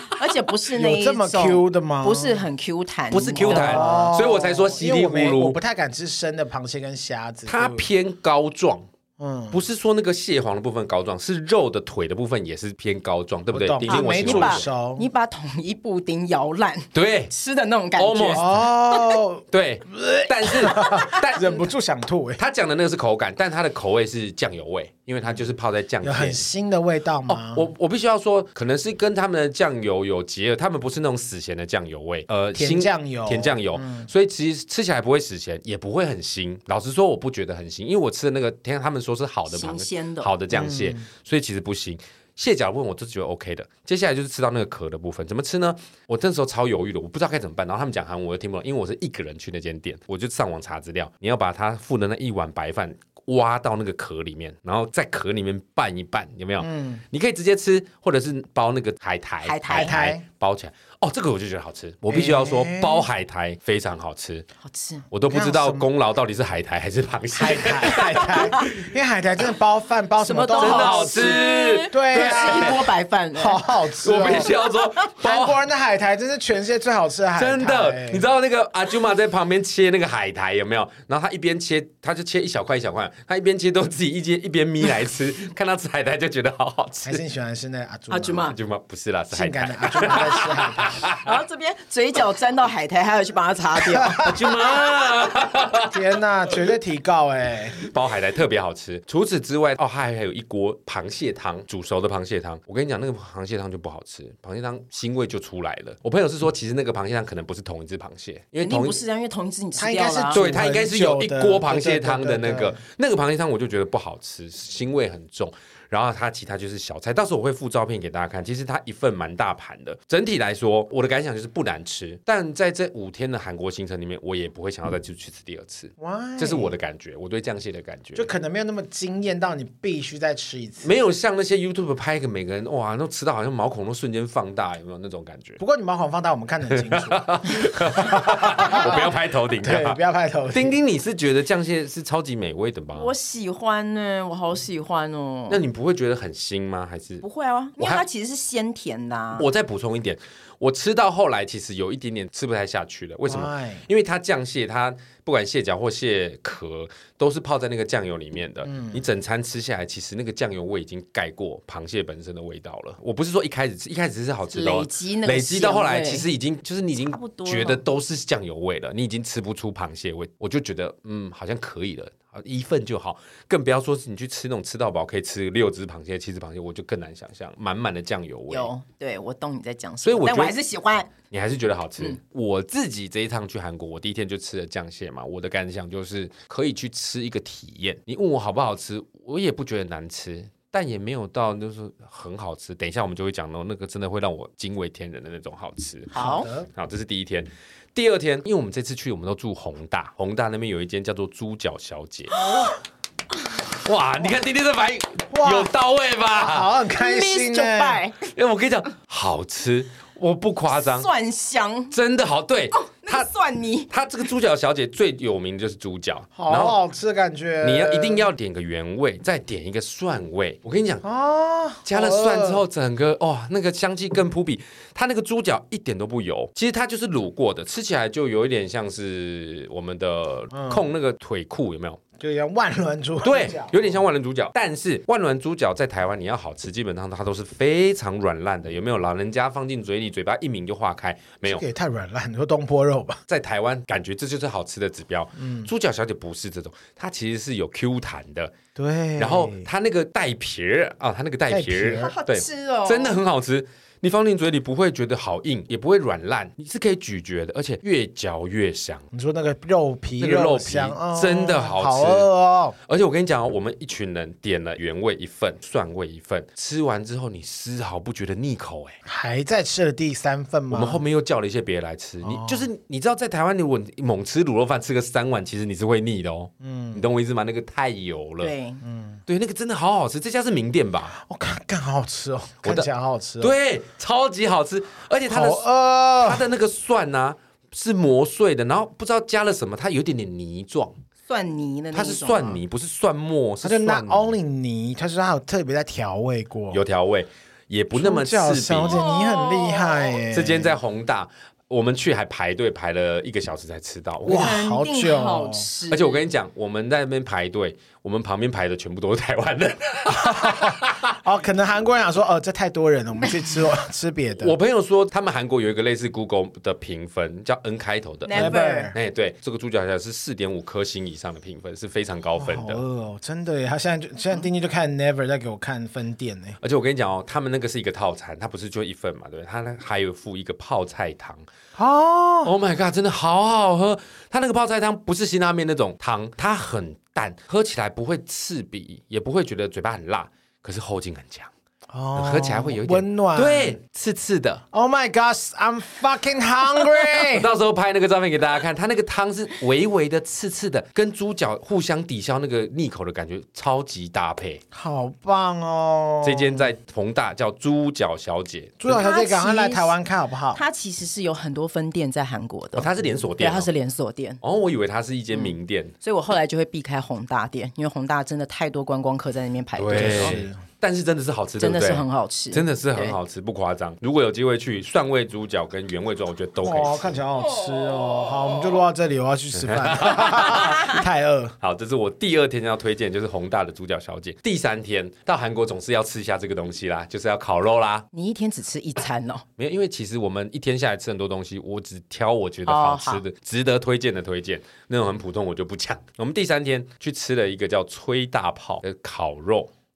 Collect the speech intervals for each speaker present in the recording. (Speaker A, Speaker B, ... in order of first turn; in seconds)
Speaker A: 0.1-4.1, 13.9-19.0, 20.8-21.1, 39.5-40.3, 59.4-60.0, 64.6-65.0, 68.0-68.7, 70.2-73.7, 74.2-75.1, 88.1-88.6, 91.2-94.3, 108.6-110.4, 142.9-145.6, 147.2-149.5, 164.5-166.3, 167.0-167.8, 178.5-181.1, 196.1-196.5, 202.4-202.7, 206.9-208.2, 210.7-211.9, 212.8-213.9, 252.0-253.2, 278.4-278.8, 291.3-292.6, 298.9-300.2, 304.3-306.2, 318.2-318.9, 358.9-360.0, 360.5-364.4, 365.3-370.4, 371.6-373.2, 377.4-378.8, 388.1-389.4, 392.7-393.2
Speaker B: 0.7-2.5, 3.4-7.8, 9.2-9.6, 13.5-15.1, 18.4-22.4, 26.0-27.7, 32.5-34.1, 40.5-41.1, 56.6-57.0, 59.7-60.2, 62.1-63.1, 65.3-65.9, 67.3-74.5, 75.2-78.3, 87.0-88.5, 89.3-91.0, 93.9-94.5, 95.9-97.8, 109.8-112.8, 126.0-126.8, 128.2-130.9, 135.6-140.8, 153.3-153.8, 158.7-159.0, 196.2-196.7, 202.5-202.7, 205.3-205.7, 206.3-208.0, 216.4-218.3, 221.0-222.6, 230.5-230.9, 232.2-234.0, 241.4-243.2, 245.4-245.7, 248.8-249.7, 251.5-252.1, 259.1-262.8, 269.1-271.0, 272.2-272.7, 276.6-277.1, 278.8-279.2, 281.1-283.6, 285.3-286.5, 293.6-296.8, 297.9-300.8, 304.2-305.7, 310.1-314.6, 318.3-319.0, 322.4-326.6, 331.8-332.5, 341.9-343.8, 344.7-347.5, 354.7-356.7, 358.8-360.6, 369.9-370.6, 376.6-381.6
Speaker C: 3.1-5.6, 7.5-8.9, 9.5-14.7, 16.9-17.3, 18.0-18.6, 19.5-21.7, 22.4-26.4, 27.3-64.5, 65.1-68.9, 70.6-72.9, 74.0-75.6, 77.4-87.2, 88.5-91.3, 94.2-96.0, 97.9-109.0, 110.3-128.3, 130.8-135.6, 136.7-140.0, 140.5-143.1, 145.5-147.2, 147.8-148.0, 149.3-178.7, 180.0-180.6, 181.3-202.3, 203.7-206.7, 208.3-211.1, 211.9-213.3, 213.9-216.8, 217.6-221.0, 221.8-232.0, 233.2-241.6, 243.3-248.6, 249.2-259.1, 260.2-262.3, 262.9-269.0, 270.7-278.5, 279.3-281.2, 282.6-282.9, 283.4-291.0, 291.9-294.4, 296.7-299.0, 300.3-304.6, 305.9-311.2, 314.4-322.8, 326.6-331.4, 332.4-341.5, 342.2-344.6, 347.1-354.6, 356.2-359.0, 362.8-363.7, 364.4-365.9, 369.8-377.2, 379.6-381.0, 381.6-388.1, 389.6-399.7